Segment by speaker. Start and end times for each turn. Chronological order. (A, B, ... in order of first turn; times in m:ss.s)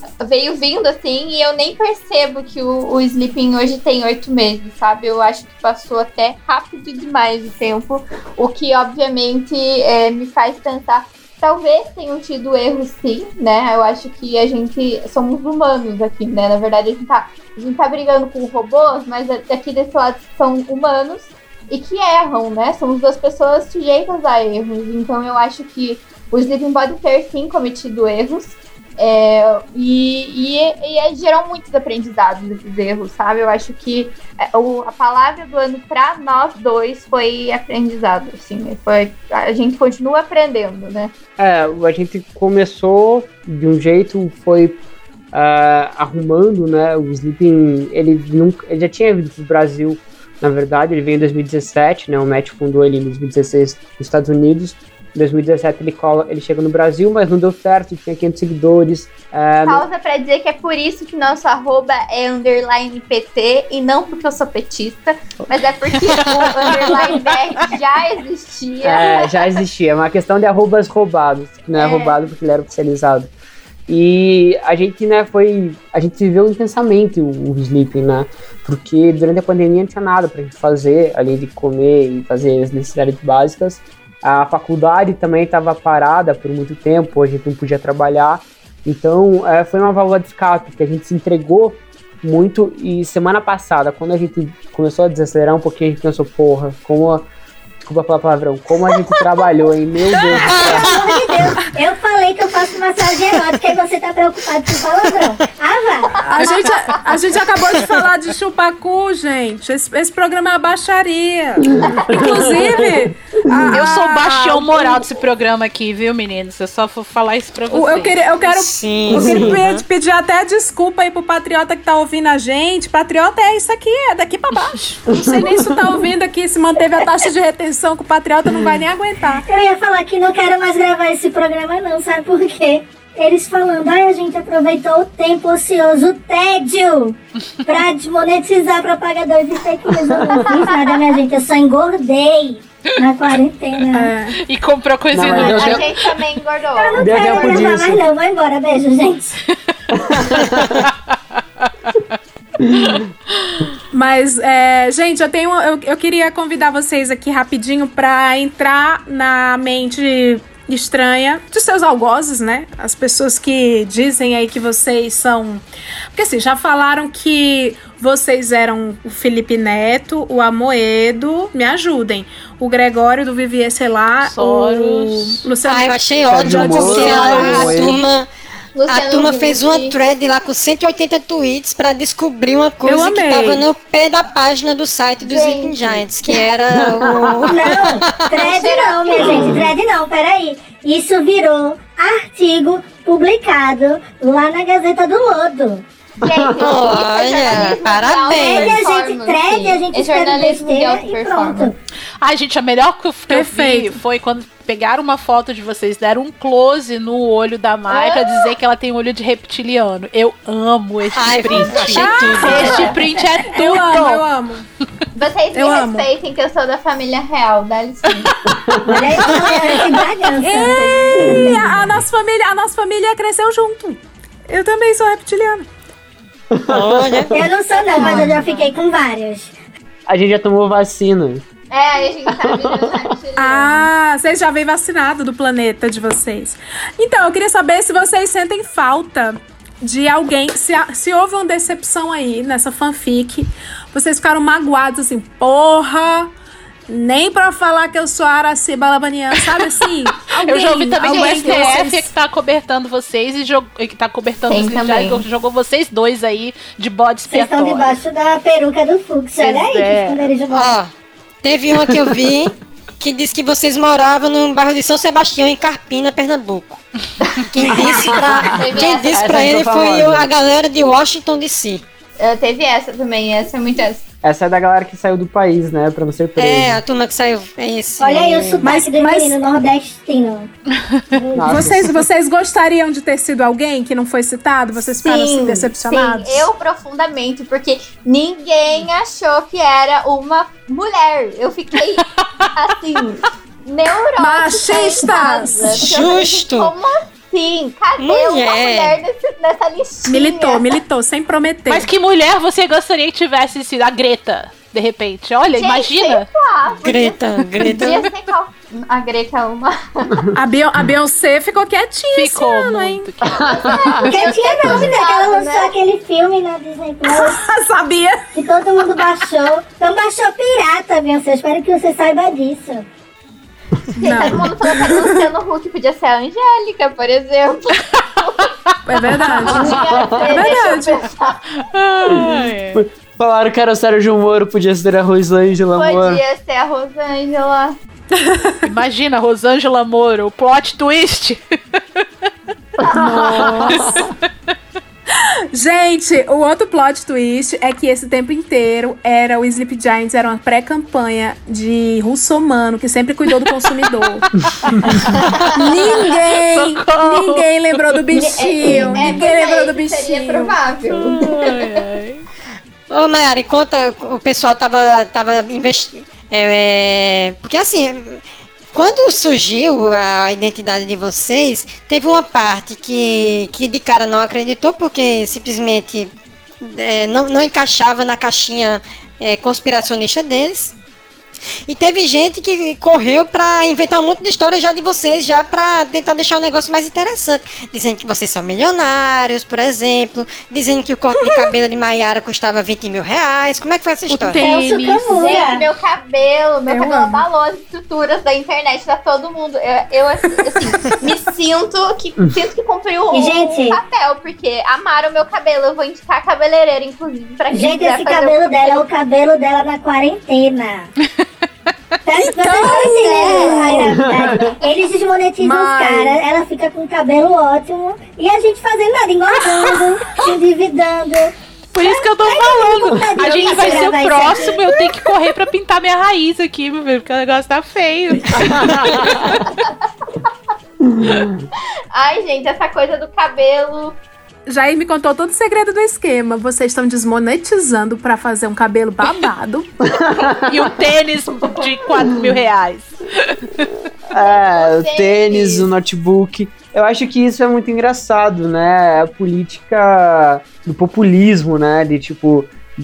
0:00.2-0:41.1 A
0:41.4-0:44.8 B
0:45.3-0:59.9 B
0:59.7-1:09.6 A
1:08.8-1:13.3 B
1:11.7-1:12.2 A
1:13.9-1:37.3 B
1:37.8-1:40.9 B
1:40.4-1:41.5 C
1:40.6-1:46.2 D
1:46.2-1:55.1 E
1:51.6-1:53.8 B
1:53.7-1:58.2 F
1:57.7-2:09.5 E
1:58.5-1:59.8 C
1:59.1-1:59.6 B
2:05.1-2:06.0 B
2:09.5-2:24.1 D
2:20.4-2:21.3 A
2:23.9-2:24.4 E
2:24.4-2:26.1 F
2:25.1-2:25.9 B
2:25.3-2:25.8 D
2:25.5-2:27.8 A
2:26.7-2:29.4 D
2:26.9-2:28.1 B
2:30.0-2:30.8 B
2:30.4-2:32.0 F
2:32.6-2:33.0 B
2:33.9-2:45.6 E
2:46.2-2:57.9 E
2:54.2-2:55.4 F
2:55.6-2:58.3 C
2:56.3-2:58.0 B
2:58.8-2:59.9 A
2:58.9-3:08.3 C
3:02.8-3:03.7 E
3:05.2-3:06.0 A
3:06.8-3:07.6 B
3:07.4-3:15.8 D
3:08.3-3:09.6 A
3:16.2-3:21.7 A
3:16.3-3:16.6 B
3:16.6-3:18.8 C
3:18.3-3:21.8 D
3:22.2-3:34.2 F
3:23.3-3:24.0 E
3:27.9-3:28.5 A
3:31.2-3:32.9 C
3:31.9-3:34.6 E
3:32.4-3:33.0 A
3:35.2-3:38.4 A
3:35.5-3:36.1 E
3:38.7-3:39.0 B
3:38.9-3:41.9 D
3:40.4-3:45.7 E
3:41.3-3:41.6 B
3:46.5-3:47.4 B
3:46.7-3:47.4 C
3:47.3-3:49.6 D
3:47.7-3:48.7 A
3:48.0-3:48.3 E
3:50.1-3:51.4 B
3:51.7-3:53.9 A
3:52.4-3:52.9 B
3:53.4-4:06.3 E
4:06.9-4:12.1 E
4:09.4-4:09.8 F
4:10.4-4:18.0 F
4:11.0-4:11.7 A
4:14.5-4:15.2 A
4:17.3-4:20.8 D
4:19.4-4:20.2 B
4:20.5-4:20.9 C
4:21.4-4:26.8 C
4:27.5-4:31.8 C
4:27.8-4:30.3 B
4:28.6-4:29.5 A
4:32.2-4:34.0 A
4:34.2-4:36.8 B
4:36.4-4:38.6 C
4:38.0-4:40.5 D
4:38.6-4:39.4 E
4:40.9-4:41.2 F
4:41.1-4:41.8 D
4:41.4-4:42.1 B
4:41.4-4:46.5 E
4:45.0-5:00.8 A
4:52.2-4:52.5 F
4:54.2-4:55.9 E
4:55.8-4:56.7 C
4:58.0-4:59.0 C
5:00.1-5:01.9 E
5:01.7-5:06.3 F
5:05.6-5:10.1 A
5:06.8-5:08.0 C
5:07.6-5:08.1 F
5:10.3-5:13.1 E
5:12.1-5:14.1 F
5:13.3-5:14.0 B
5:13.4-5:15.7 A
5:14.1-5:17.5 D
5:17.1-5:18.4 E
5:18.3-5:22.9 D
5:24.0-5:24.5 E
5:24.0-5:28.5 A
5:28.9-5:29.8 E
5:29.3-5:29.7 F
5:29.4-5:31.4 A
5:29.5-5:30.4 B
5:30.3-5:31.0 E
5:30.4-5:31.0 F
5:31.6-5:32.8 F
5:32.2-5:36.2 B
5:35.8-5:37.8 A
5:38.2-5:38.6 E
5:38.6-5:42.0 F
5:42.8-5:44.0 B
5:42.9-5:44.0 E
5:43.8-5:44.0 F
5:45.5-5:54.3 E
5:53.4-5:58.0 F
5:55.6-6:00.6 E
5:58.1-6:01.8 A
5:58.8-5:59.2 D
6:01.0-6:02.2 F
6:02.9-6:20.8 C
6:21.7-6:34.5 C
6:34.1-6:35.3 F
6:34.3-6:35.6 D
6:35.1-6:48.8 A
6:36.7-6:37.2 E
6:43.1-6:43.8 D
6:47.5-6:50.9 D
6:52.0-7:04.7 D
6:52.2-6:53.7 E
6:52.6-6:53.8 A
6:53.9-6:54.6 B
6:55.4-6:56.2 E
7:01.7-7:09.4 F
7:11.0-7:11.4 B
7:11.9-7:14.0 A
7:14.5-7:19.7 E
7:19.9-7:20.7 B
7:20.5-7:23.7 F
7:24.1-7:32.5 B
7:24.2-7:25.7 A